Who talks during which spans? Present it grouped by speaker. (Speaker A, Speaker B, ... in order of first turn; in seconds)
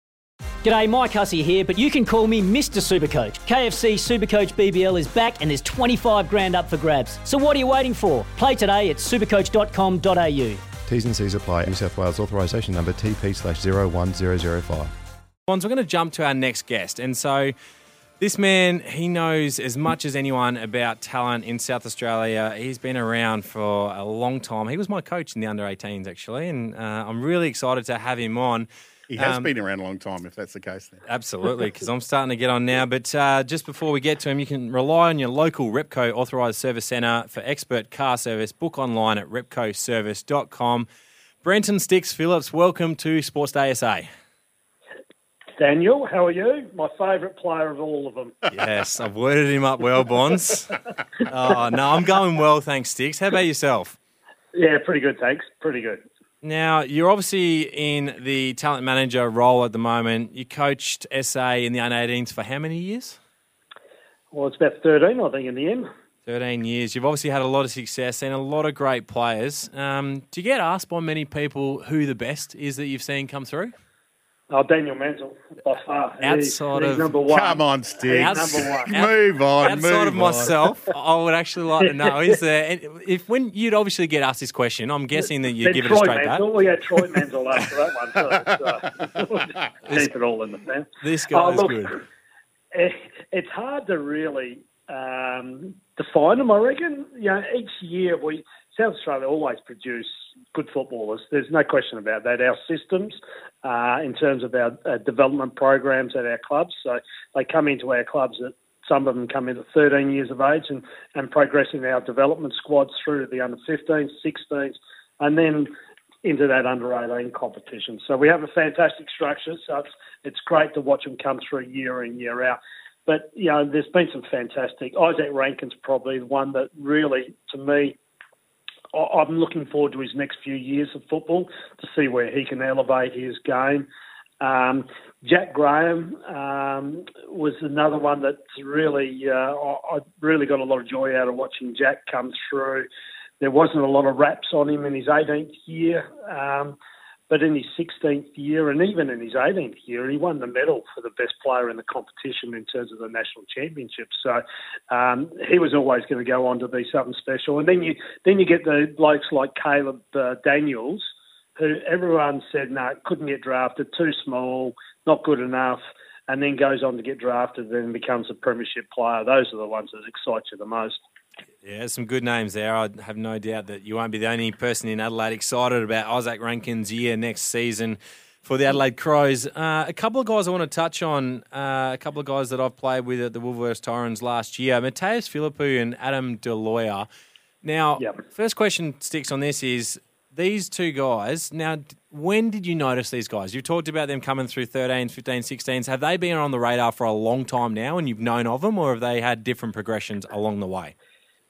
Speaker A: 0.6-10.7
Speaker B: 10.9-14.9
Speaker C: 15.5-17.5, 18.2-29.5, 31.1-40.9, 41.4-44.1, 48.5-54.0, 56.4-63.2, 66.3-73.7, 76.2-77.2, 78.1-79.1, 79.6-86.5, 91.0-92.0, 171.6-187.1, 187.6-200.9
Speaker D: 29.1-31.0, 77.3-80.5
Speaker E: 45.6-48.4, 54.5-56.0, 64.3-65.9, 74.5-78.9, 81.8-82.1, 85.6-92.0, 92.7-115.7, 116.2-128.0, 128.9-133.9, 134.4-142.9, 143.4-146.8, 147.3-171.0